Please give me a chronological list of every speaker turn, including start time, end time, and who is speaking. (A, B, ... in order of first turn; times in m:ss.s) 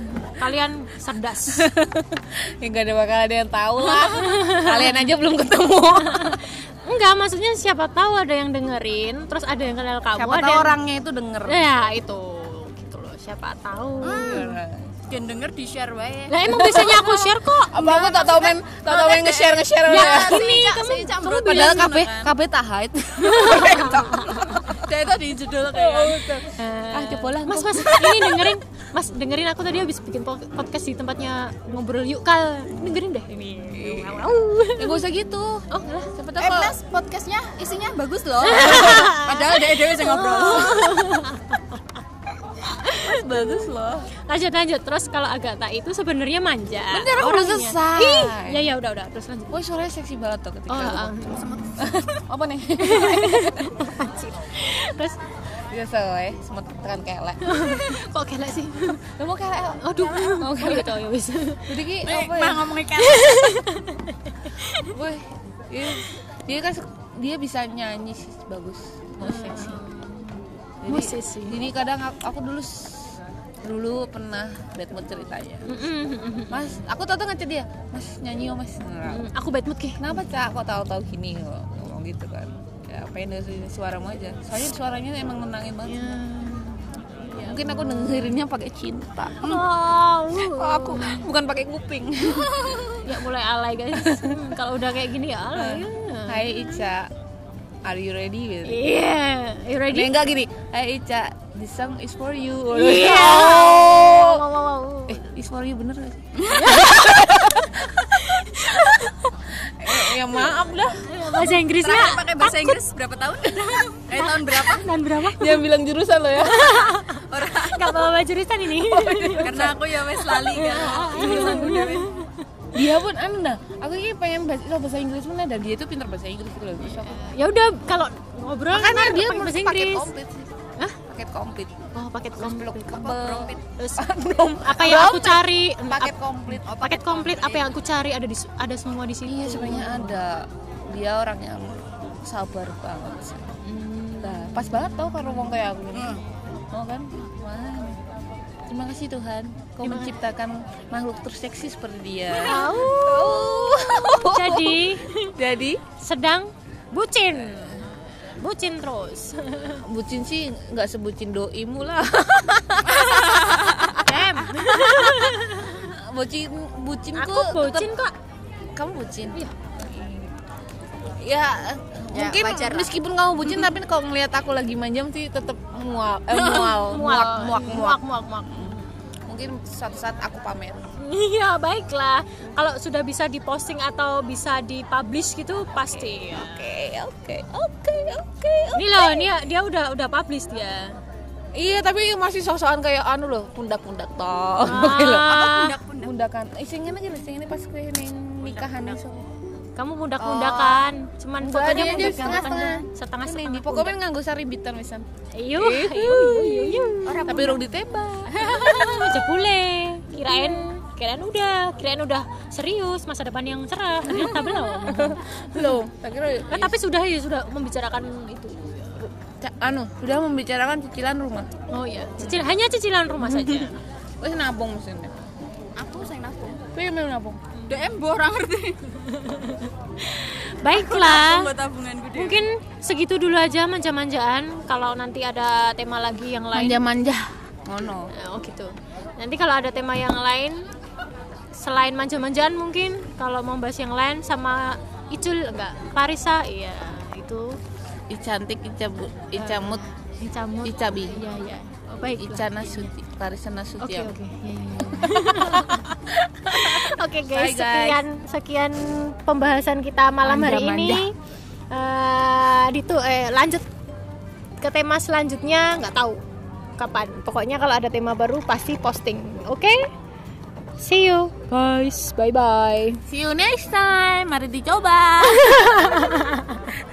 0:00.4-0:01.7 A
0:01.5-0:06.4 B
0:03.9-0:05.1 A
0:06.0-0:10.8 A
0:10.2-0:11.7 B
0:11.5-0:14.6 A
0:14.0-0:14.5 C
0:14.0-0:15.0 B
0:15.1-0:17.0 C
0:16.3-0:17.9 A
0:16.5-0:20.8 B
0:17.7-0:22.3 C
0:19.8-0:22.0 A
0:21.4-0:24.9 B
0:23.2-0:24.6 A
0:23.3-0:26.4 C
0:25.7-0:28.6 B
0:26.6-0:35.0 A
0:32.7-0:33.0 B
0:33.4-0:33.9 C
0:33.7-0:36.8 B
0:35.7-0:36.1 A
0:36.4-0:41.1 C
0:38.4-0:41.8 A
0:42.7-0:43.7 A
0:42.8-0:44.1 B
0:44.3-0:49.6 A
0:46.9-0:48.7 B
0:49.5-0:51.2 B
0:50.7-0:51.6 A
0:51.3-0:52.2 C
0:51.8-0:53.8 B
0:52.8-0:55.2 A
0:55.7-0:58.0 B
0:57.4-0:59.0 A
0:59.1-1:01.0 B
0:59.8-1:01.7 A
1:01.7-1:02.7 B
1:02.0-1:03.6 C
1:03.0-1:05.0 A
1:04.9-1:09.8 B
1:09.2-1:11.6 A
1:10.8-1:15.7 B
1:15.7-1:16.8 A
1:16.5-1:19.3 B
1:19.0-1:20.2 A
1:20.0-1:26.3 B
1:25.9-1:28.4 A
1:27.3-1:29.7 B
1:29.3-1:31.3 A
1:30.4-1:33.1 B
1:33.0-1:36.8 A
1:33.9-1:34.6 B
1:35.5-1:37.1 B
1:37.9-1:38.8 B
1:38.6-1:40.1 A
1:39.9-1:44.4 B
1:42.7-1:45.2 A
1:45.1-1:51.5 B
1:46.4-1:47.3 C
1:46.5-1:47.3 A
1:47.9-1:49.2 A
1:51.1-1:52.7 A
1:51.7-1:55.0 C
1:54.2-1:55.6 A
1:55.1-1:57.0 B
1:56.4-2:02.4 A
1:57.3-1:58.1 C
1:58.8-1:59.8 B
1:59.2-2:02.1 C
2:01.1-2:01.9 B
2:02.7-2:07.2 B
2:06.8-2:10.1 A
2:08.7-2:10.5 B
2:11.0-2:16.6 B
2:11.9-2:14.1 A
2:13.1-2:13.6 C
2:14.6-2:16.1 A
2:16.5-2:17.7 C
2:16.8-2:20.2 A
2:19.3-2:23.5 B
2:23.6-2:25.5 A
2:24.2-2:28.0 B
2:25.9-2:26.2 C
2:28.7-2:35.8 B
2:29.8-2:30.1 A
2:32.3-2:33.6 A
2:34.2-2:35.4 A
2:35.9-2:39.8 A
2:39.8-2:47.9 B
2:42.9-2:43.9 C
2:44.0-2:45.7 A
2:47.1-2:48.1 A
2:48.8-2:50.3 B
2:51.2-3:00.9 B
2:52.1-2:52.9 C
2:56.3-2:58.9 A
3:01.0-3:06.7 A
3:06.0-3:09.3 B
3:08.7-3:10.9 A
3:11.6-3:19.3 B
3:14.6-3:15.7 A
3:14.9-3:16.1 C
3:18.4-3:19.0 C
3:19.8-3:24.0 A
3:20.2-3:20.9 C
3:21.4-3:29.0 B
3:21.6-3:22.8 C
3:25.3-3:27.5 A
3:27.0-3:27.6 C
3:28.3-3:29.1 C
3:28.4-3:35.8 A
3:30.3-3:30.6 B
3:34.1-3:36.8 B
3:36.5-3:39.1 A
3:39.3-3:41.5 B
3:41.7-3:43.8 A
3:42.2-3:42.5 B
3:43.2-3:45.1 B
3:45.8-3:46.6 C
3:46.7-3:47.4 B
3:47.7-3:49.0 C
3:49.1-3:51.5 A
3:50.7-3:52.4 C
3:52.2-3:56.8 A
3:56.5-3:58.1 B
3:58.1-4:00.7 A
4:01.6-4:07.6 A
4:08.1-4:09.8 B
4:09.4-4:12.9 A
4:10.6-4:11.2 B
4:12.2-4:14.2 B
4:13.8-4:15.9 A
4:14.8-4:18.0 B
4:16.5-4:21.1 A
4:20.2-4:21.1 B
4:21.7-4:23.7 A
4:24.6-4:26.2 A
4:26.8-4:29.9 A
4:30.8-4:33.0 A
4:33.1-4:36.2 B
4:35.3-4:36.7 A